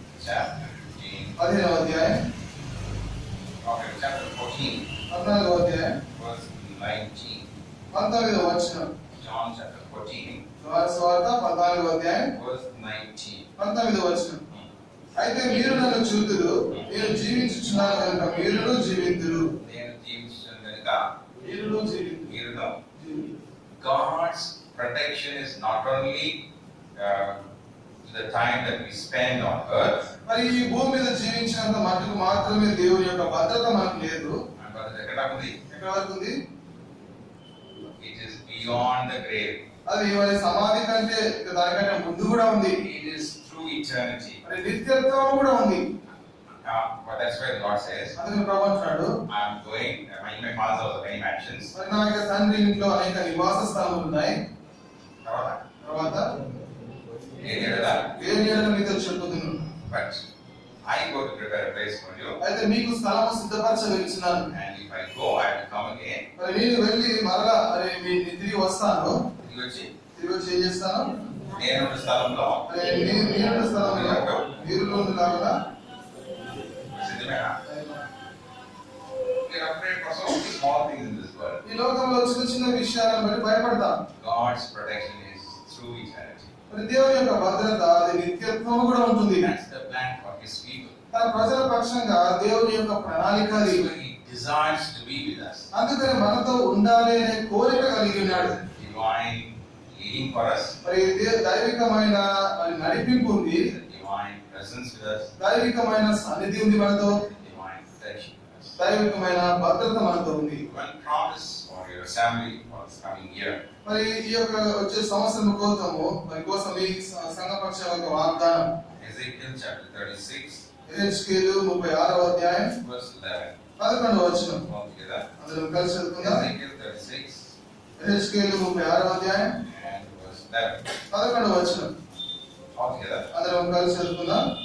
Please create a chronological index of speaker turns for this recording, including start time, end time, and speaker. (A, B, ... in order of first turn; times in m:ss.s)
0:00.1-0:01.4 A
0:01.4-0:02.2 B
0:03.6-0:04.9 A
0:05.1-0:06.0 B
0:06.1-0:07.5 A
0:07.9-0:08.9 B
0:09.1-0:10.4 A
0:10.6-0:12.3 B
0:12.3-0:13.4 A
0:13.6-0:14.4 B
0:15.2-0:19.6 B
0:19.6-0:21.0 A
0:21.4-0:22.3 B
0:22.2-0:22.8 A
0:23.0-0:23.3 B
0:23.8-0:26.4 A
0:27.0-0:27.5 A
0:28.0-0:30.1 A
0:30.2-0:34.4 B
0:34.6-0:35.6 A
0:35.7-0:36.4 B
0:37.8-0:39.6 A
0:39.8-0:42.8 B
0:42.8-0:44.4 A
0:44.4-0:45.8 B
0:46.6-0:48.1 A
0:48.2-0:49.1 B
0:49.3-0:51.7 A
0:51.7-0:54.4 B
0:55.2-0:55.6 A
0:55.8-0:56.3 B
0:57.4-0:58.1 A
0:58.0-0:59.7 B
0:59.8-1:00.2 A
1:00.8-1:02.4 A
1:02.4-1:04.5 B
1:04.5-1:06.2 A
1:06.4-1:09.2 B
1:09.4-1:09.9 A
1:10.1-1:11.1 B
1:11.5-1:12.7 A
1:12.6-1:15.5 B
1:13.7-1:14.5 A
1:16.9-1:17.5 A
1:17.6-1:18.0 B
1:19.4-1:21.6 A
1:21.6-1:23.9 B
1:24.2-1:26.5 A
1:26.7-1:29.5 B
1:29.4-1:31.0 A
1:31.1-1:33.8 B
1:33.5-1:35.7 A
1:35.7-1:38.5 B
1:38.2-1:40.8 A
1:40.8-1:43.7 B
1:43.6-1:45.3 A
1:45.4-1:47.2 B
1:47.2-1:48.8 A
1:48.8-1:50.6 B
1:50.6-1:53.6 A
1:53.8-1:58.7 B
1:58.9-2:00.7 A
2:00.9-2:02.8 B
2:02.8-2:03.5 A
2:03.8-2:04.6 B
2:04.6-2:05.2 A
2:05.4-2:06.4 B
2:06.2-2:07.5 A
2:08.0-2:09.6 B
2:09.6-2:10.9 A
2:11.1-2:11.9 B
2:12.7-2:13.3 A
2:13.3-2:14.4 B